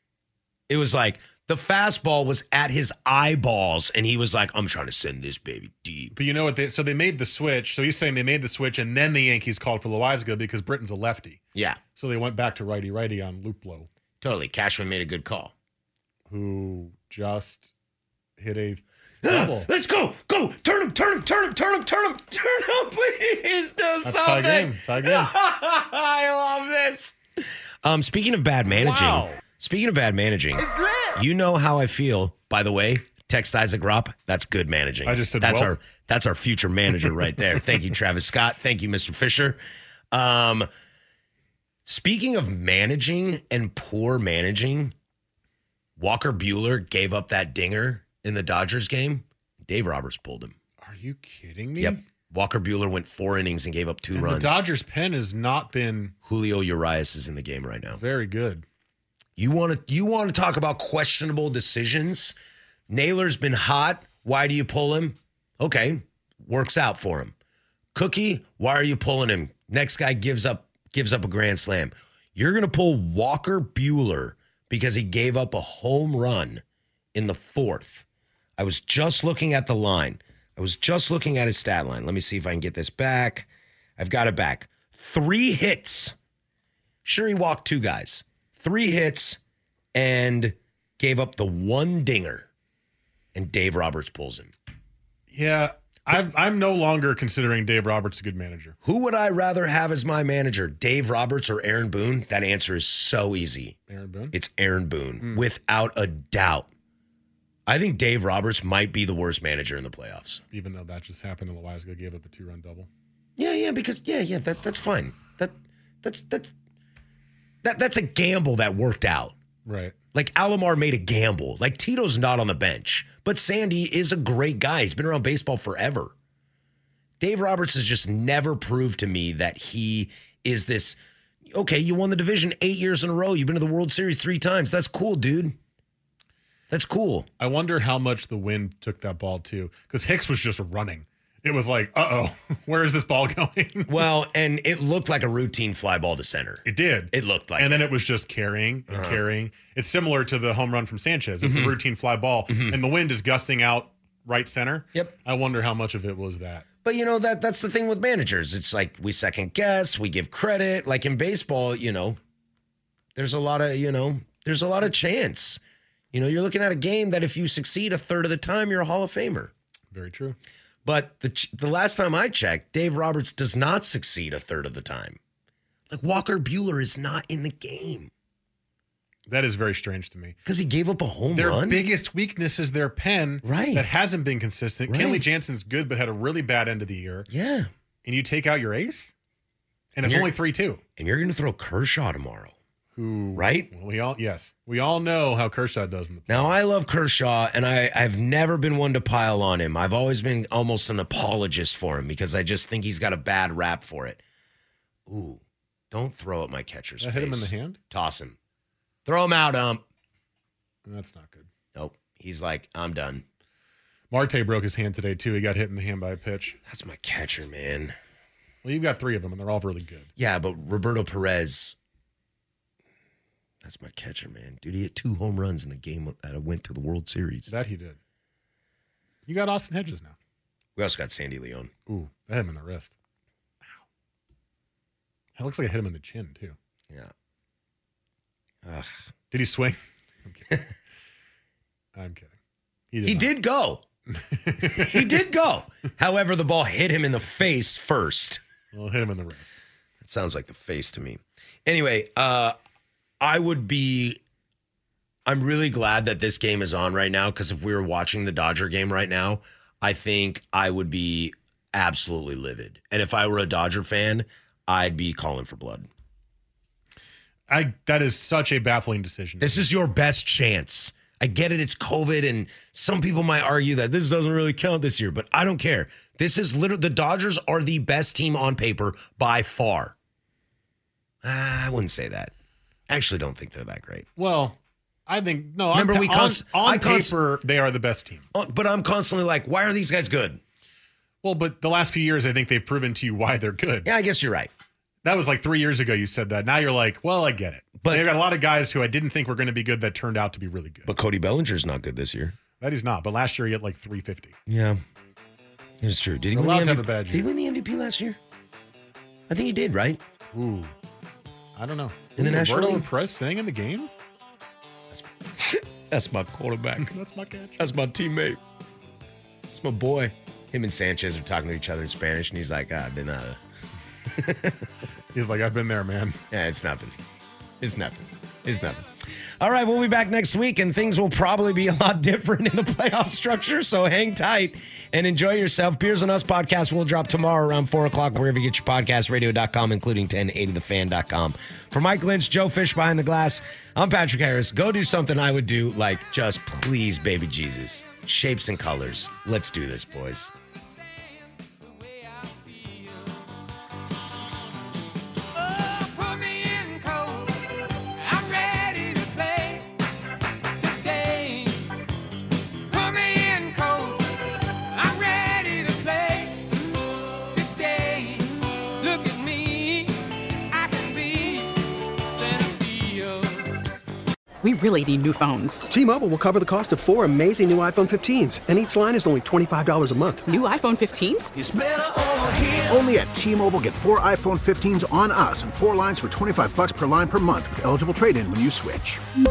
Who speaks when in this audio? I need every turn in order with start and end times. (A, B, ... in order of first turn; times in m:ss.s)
0:00.7-0:06.1 A
0:06.1-0:11.4 B
0:11.6-0:11.8 A
0:12.0-0:13.9 B
0:14.2-0:15.5 A
0:16.3-0:17.7 B
0:18.4-0:19.7 B
0:19.2-0:27.2 A
0:24.0-0:25.3 B
0:27.8-0:39.6 A
0:35.0-0:35.8 B
0:40.1-0:40.7 A
0:41.9-0:44.9 A
0:46.0-0:50.6 A
0:50.8-0:52.0 B
0:51.8-0:54.6 A
0:54.2-0:56.1 B
0:56.2-0:58.0 A
0:57.9-0:58.6 B
0:59.4-1:02.4 A
1:02.9-1:07.3 A
1:07.9-1:16.6 A
1:17.1-1:18.0 A
1:18.6-1:26.2 A
1:27.0-1:29.4 A
1:29.9-1:32.5 A
1:33.3-1:34.5 A
1:35.3-1:38.8 B
1:38.8-1:43.8 A
1:43.9-1:44.3 B
1:44.3-1:46.7 A
1:45.2-1:45.5 B
1:47.7-1:50.4 A
1:50.5-1:52.9 B
1:53.4-1:56.5 A
1:57.6-1:59.4 A
1:59.6-2:00.0 B
2:00.1-2:06.1 A
2:07.2-2:15.6 A
2:16.7-2:17.3 A
2:17.4-2:24.0 B
2:23.9-2:27.9 A
2:26.6-2:36.7 B
2:28.9-2:29.2 A
2:31.4-2:31.8 A
2:32.5-2:32.8 A
2:36.8-2:42.2 A
2:43.2-2:45.6 A
2:46.1-2:49.5 A
2:49.9-2:50.4 B
2:50.8-2:55.2 A
2:55.9-2:58.1 A
2:59.3-3:00.4 B
3:00.4-3:01.9 A
3:01.3-3:07.3 B
3:03.4-3:03.9 A
3:04.9-3:05.3 A
3:07.3-3:07.7 A
3:08.0-3:09.1 B
3:09.9-3:10.8 B
3:10.0-3:10.4 A
3:11.0-3:12.6 A
3:13.0-3:16.6 B
3:13.4-3:13.7 A
3:16.3-3:24.2 A
3:25.1-3:28.4 A
3:27.0-3:27.8 B
3:29.0-3:29.8 A
3:30.9-3:31.5 B
3:31.8-3:33.2 A
3:34.1-3:36.6 B
3:36.7-3:38.0 A
3:38.6-3:40.1 B
3:40.2-3:41.8 A
3:43.6-3:47.5 A
3:47.5-3:48.0 B
3:49.3-3:50.2 B
3:50.8-3:51.7 A
3:51.9-3:52.9 B
3:55.4-3:56.6 B
3:58.6-3:59.0 A
3:59.3-4:00.6 B
4:02.0-4:02.3 B
4:02.9-4:03.3 B
4:03.0-4:03.8 A
4:04.1-4:05.2 B
4:04.6-4:08.4 A
4:08.7-4:09.6 B
4:10.0-4:12.6 A
4:13.2-4:14.2 A
4:15.3-4:25.9 A
4:27.5-4:29.7 B
4:29.4-4:40.0 A
4:41.2-4:42.3 A
4:42.9-4:44.1 A
4:44.2-4:48.3 B
4:45.7-4:47.2 A
4:48.3-4:50.4 A
4:51.2-4:53.9 B
4:53.8-4:54.5 A
4:55.0-5:00.9 B
4:57.8-4:58.2 A
5:00.9-5:02.4 A
5:02.6-5:04.4 B
5:04.5-5:04.8 A
5:05.8-5:08.2 A
5:06.3-5:07.3 B
5:09.3-5:10.0 A
5:10.3-5:10.7 B
5:11.6-5:13.9 B
5:12.2-5:12.9 A
5:14.9-5:16.9 A
5:16.8-5:17.6 B
5:17.6-5:18.4 A
5:19.5-5:23.4 A
5:24.2-5:24.7 A
5:25.1-5:26.2 B
5:26.3-5:27.0 A
5:27.6-5:28.9 A
5:29.4-5:50.3 A
5:50.8-5:53.4 C
5:55.3-5:59.7 C
6:00.6-6:01.8 C
6:02.7-6:13.5 C
6:14.4-6:15.7 D
6:15.7-6:20.3 E
6:20.3-6:21.3 D
6:21.4-6:29.0 F